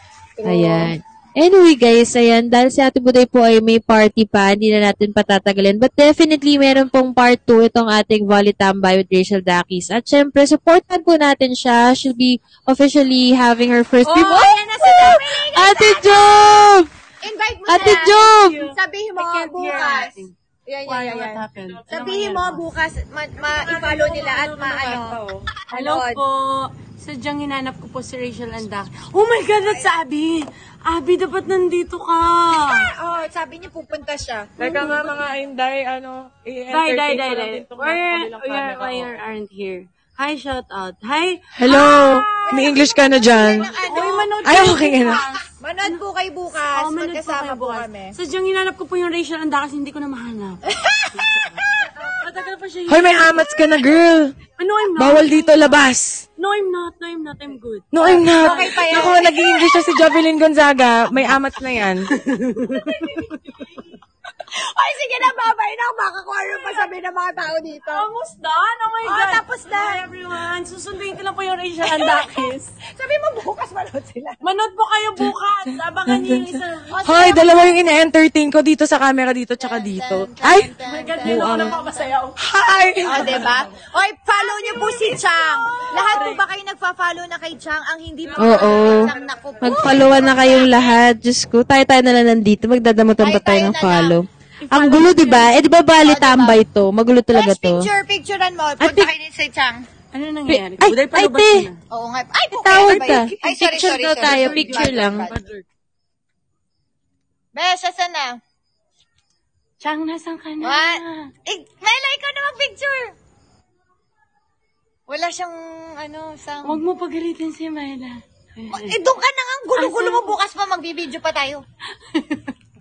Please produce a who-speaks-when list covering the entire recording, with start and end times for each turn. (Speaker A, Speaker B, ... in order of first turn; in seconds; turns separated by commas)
Speaker A: 0.4-0.9, Speaker B: 0.4-16.9, Speaker A: 14.1-16.7, Speaker A: 17.2-26.2, Speaker B: 17.7-18.6, Speaker C: 18.5-20.3, Speaker C: 20.9-22.6, Speaker C: 23.4-32.9, Speaker A: 29.6-29.9, Speaker A: 32.5-34.5, Speaker D: 34.6-39.2, Speaker C: 34.6-35.0, Speaker C: 36.7-42.0, Speaker D: 41.5-43.8, Speaker A: 41.6-44.6, Speaker C: 43.8-46.0, Speaker D: 44.4-45.3, Speaker A: 45.6-48.1, Speaker C: 46.7-50.6, Speaker A: 50.7-51.9, Speaker C: 51.2-53.8, Speaker D: 52.9-54.4, Speaker C: 54.5-59.4, Speaker D: 55.0-56.2, Speaker D: 57.9-62.9, Speaker A: 58.0-59.9, Speaker C: 62.3-62.8, Speaker A: 62.7-63.4, Speaker A: 64.4-68.1, Speaker C: 67.8-72.8, Speaker A: 69.0-70.1, Speaker A: 71.8-74.4, Speaker C: 74.4-77.6, Speaker B: 76.2-76.4, Speaker A: 76.9-77.4, Speaker D: 77.0-81.9, Speaker A: 79.6-81.9, Speaker C: 80.7-83.5, Speaker D: 82.4-83.5, Speaker A: 83.0-91.0, Speaker B: 88.4-97.9, Speaker D: 88.5-89.8, Speaker A: 93.2-94.2, Speaker C: 94.7-95.6, Speaker A: 95.2-96.6, Speaker A: 97.3-99.8, Speaker B: 98.8-99.1, Speaker C: 100.1-101.8, Speaker B: 100.5-101.7, Speaker A: 101.9-105.4, Speaker B: 102.5-105.3, Speaker C: 104.2-105.6, Speaker A: 107.5-108.4, Speaker C: 109.8-111.3, Speaker A: 110.6-113.1, Speaker A: 115.1-116.8, Speaker C: 116.6-119.0, Speaker A: 118.7-121.6, Speaker C: 119.8-120.4, Speaker C: 122.1-122.5